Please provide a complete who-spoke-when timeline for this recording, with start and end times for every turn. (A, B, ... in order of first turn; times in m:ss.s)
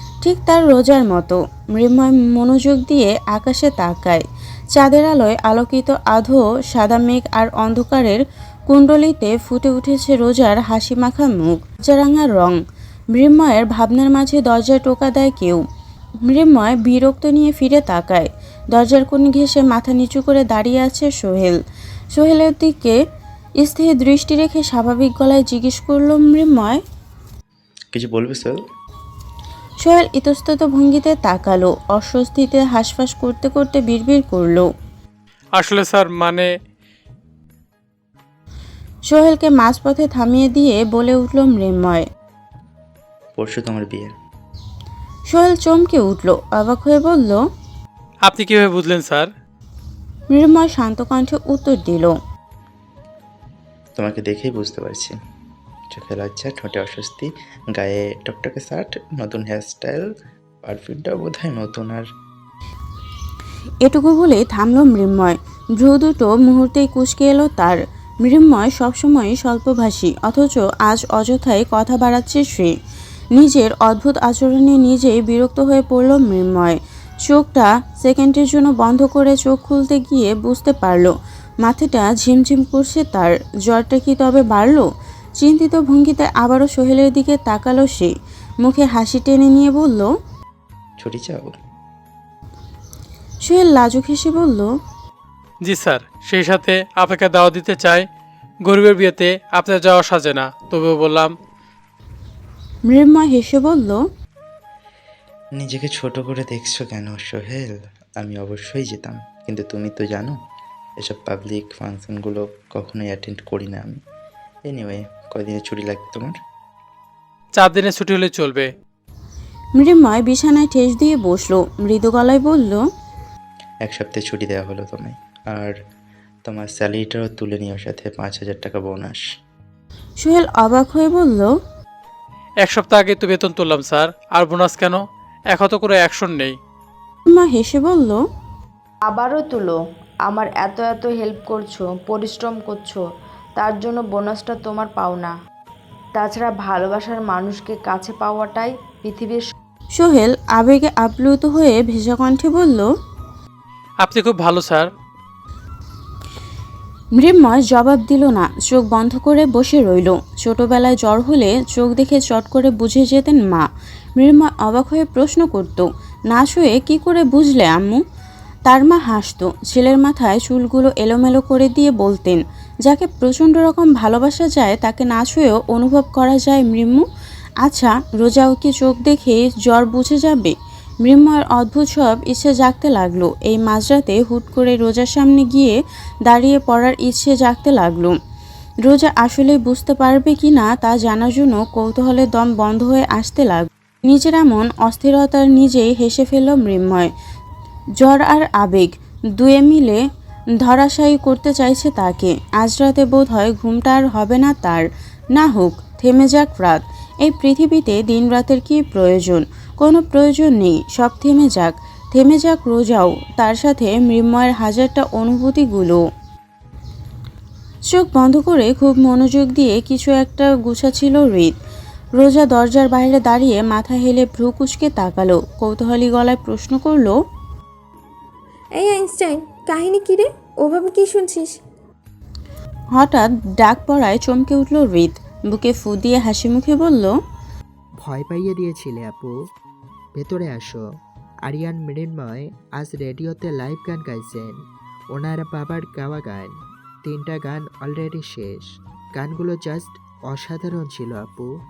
0:00.2-0:04.2 A
0:04.7-0:12.6 A
0:13.1-0:15.6 A
0:16.2-0:21.6 A
0:22.1-0:23.0 A
0:23.6-0:26.8 A
0:27.9-0:28.6 B
0:29.8-0:34.6 A
0:35.5-0:36.5 C
0:39.1-0:42.0 A
0:43.4-0:44.1 B
0:45.3-0:47.4 A
0:48.2-0:49.3 C
0:50.3-0:52.1 A
0:54.0-0:55.1 B
0:55.9-1:00.0 B
1:00.7-1:02.0 B
1:03.8-1:12.7 A
1:13.4-1:24.8 A
1:25.4-1:28.1 A
1:28.6-1:30.1 A
1:31.0-1:31.5 B
1:33.4-1:34.7 A
1:35.6-1:38.1 C
1:38.6-1:41.3 C
1:42.9-1:44.0 A
1:45.6-1:47.7 B
1:48.2-1:50.3 B
1:51.0-1:54.0 B
1:54.7-1:56.3 B
1:57.5-1:58.7 C
1:59.8-2:02.8 A
2:03.9-2:05.7 B
2:06.5-2:09.2 B
2:10.2-2:11.5 A
2:12.6-2:16.6 C
2:17.3-2:18.2 A
2:19.1-2:23.0 D
2:23.6-2:25.3 D
2:26.2-2:29.5 D
2:30.0-2:32.9 A
2:34.0-2:34.9 C
2:37.2-2:43.7 A
2:44.2-2:48.0 A
2:48.7-2:57.0 A
2:57.6-3:08.1 A
3:08.8-3:17.1 A
3:18.0-3:20.0 A
3:20.6-3:36.0 A
3:37.9-3:41.5 A
3:42.2-3:47.1 A
3:48.8-3:51.6 E
3:53.0-3:57.1 A
3:58.0-3:59.3 F
4:00.1-4:00.8 F
4:01.5-4:04.5 F
4:05.1-4:06.5 F
4:07.0-4:11.5 F